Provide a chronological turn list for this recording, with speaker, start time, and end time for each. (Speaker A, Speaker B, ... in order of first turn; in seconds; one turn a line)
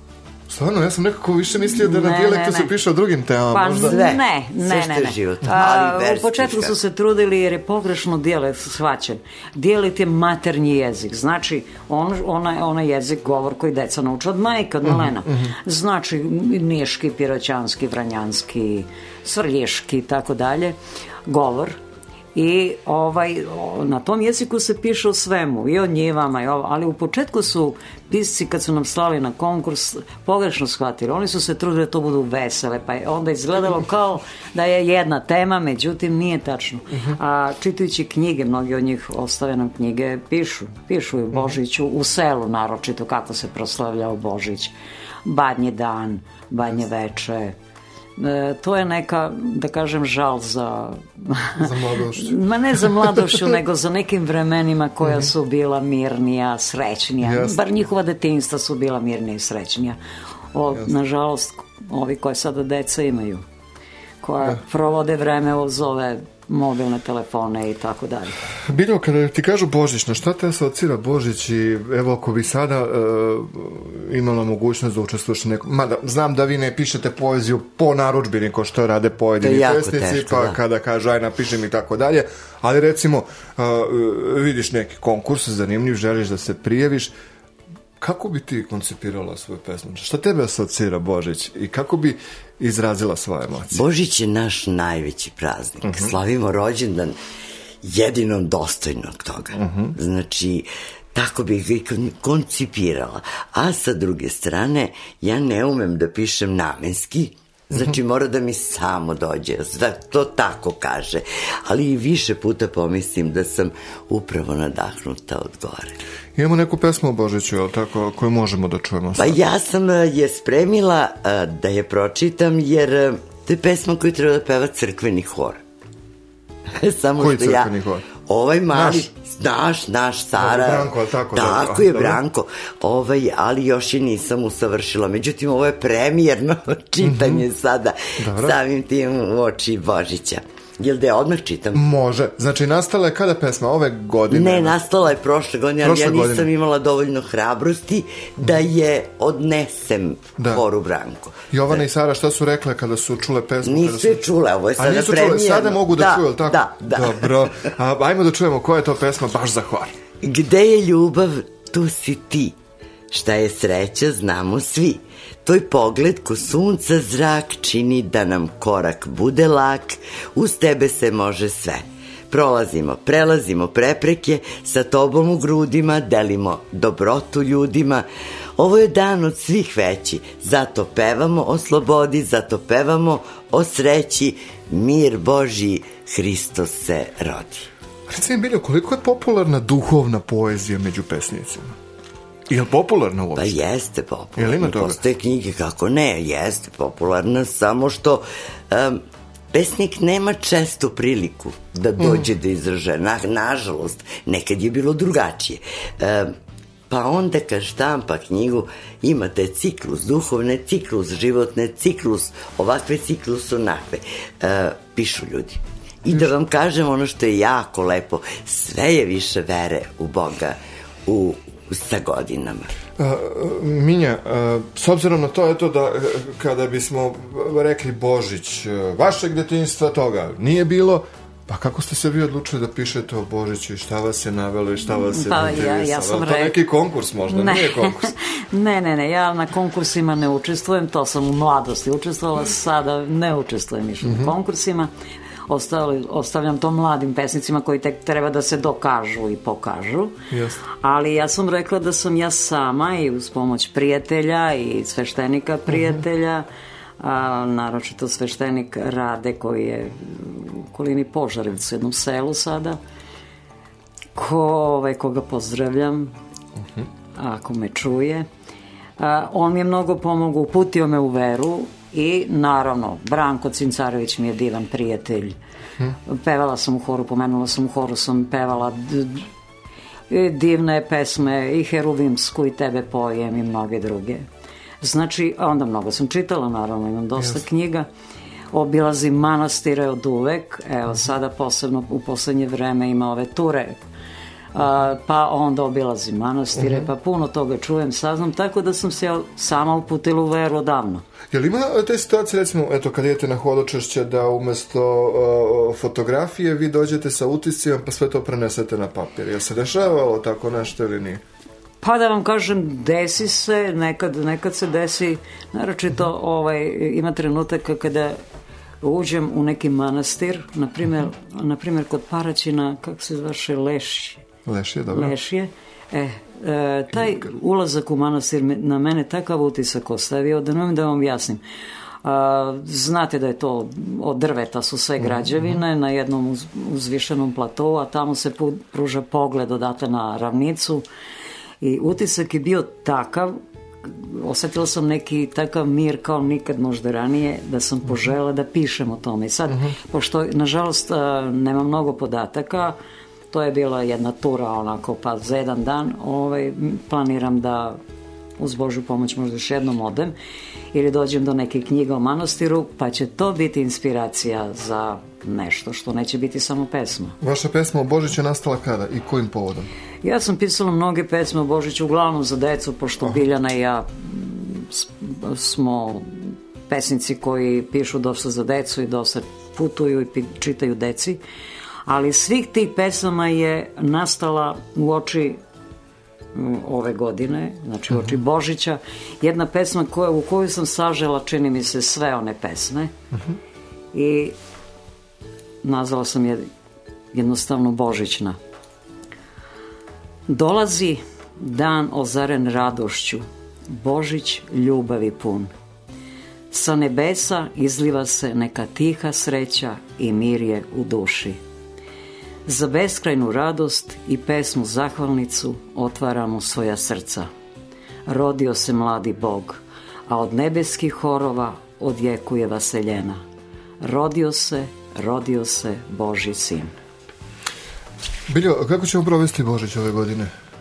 Speaker A: 0.5-4.0
Speaker B: 1.6-2.8
Speaker B: 3.5-21.8
Speaker C: 3.7-6.7
Speaker A: 14.8-15.5
Speaker B: 22.3-44.7
Speaker A: 36.9-37.2
Speaker B: 45.2-47.5
Speaker B: 48.2-60.0
Speaker A: 51.6-53.4
Speaker A: 57.2-57.6
Speaker B: 60.5-63.4
Speaker B: 64.2-68.3
Speaker A: 68.7-87.1
Speaker C: 79.4-80.6
Speaker A: 88.0-93.8
Speaker C: 93.7-97.1
Speaker A: 95.8-96.2
Speaker C: 97.8-116.0
Speaker A: 99.5-99.9
Speaker A: 116.3-119.4
Speaker C: 119.2-125.6
Speaker C: 126.8-127.7
Speaker A: 127.2-128.1
Speaker C: 128.2-141.8
Speaker A: 128.7-129.1
Speaker A: 130.4-132.2
Speaker A: 137.0-137.4
Speaker A: 138.2-138.6
Speaker A: 141.7-144.8
Speaker C: 144.3-151.8
Speaker A: 145.8-146.5
Speaker A: 150.4-150.6
Speaker A: 151.5-154.2
Speaker C: 153.6-157.7
Speaker A: 154.8-159.9
Speaker C: 160.2-162.5
Speaker C: 163.1-178.0
Speaker C: 178.6-187.7
Speaker A: 188.1-191.7
Speaker A: 192.5-193.6
Speaker C: 193.3-199.0
Speaker A: 194.3-195.0
Speaker C: 199.5-206.3
Speaker A: 202.0-202.3
Speaker C: 206.9-222.7
Speaker A: 223.0-238.1
Speaker B: 234.9-236.6
Speaker B: 237.3-244.9
Speaker A: 244.0-244.3
Speaker B: 245.5-250.1
Speaker A: 250.3-250.6
Speaker B: 250.8-256.4
Speaker B: 257.0-262.8
Speaker B: 264.1-266.1
Speaker B: 267.1-268.2
Speaker B: 269.0-275.3
Speaker B: 276.1-279.3
Speaker B: 280.1-284.2
Speaker B: 284.8-287.9
Speaker B: 288.5-293.8
Speaker B: 294.5-301.0
Speaker A: 296.6-296.9
Speaker A: 301.3-311.2
Speaker B: 311.8-318.2
Speaker B: 318.8-324.2
Speaker A: 324.4-325.1
Speaker B: 324.9-331.4
Speaker B: 332.0-340.8
Speaker A: 335.0-335.6
Speaker B: 341.6-343.3
Speaker B: 343.8-352.7
Speaker B: 353.3-357.8
Speaker B: 358.4-360.1
Speaker B: 360.7-367.1
Speaker A: 367.2-369.7
Speaker B: 370.0-381.2
Speaker B: 381.9-385.4
Speaker B: 386.3-392.9
Speaker B: 393.9-394.3
Speaker B: 395.6-396.4
Speaker B: 397.1-398.4
Speaker B: 400.3-405.5
Speaker B: 406.5-411.4
Speaker B: 412.4-417.3
Speaker B: 418.1-423.2
Speaker B: 423.8-426.7
Speaker A: 428.3-430.3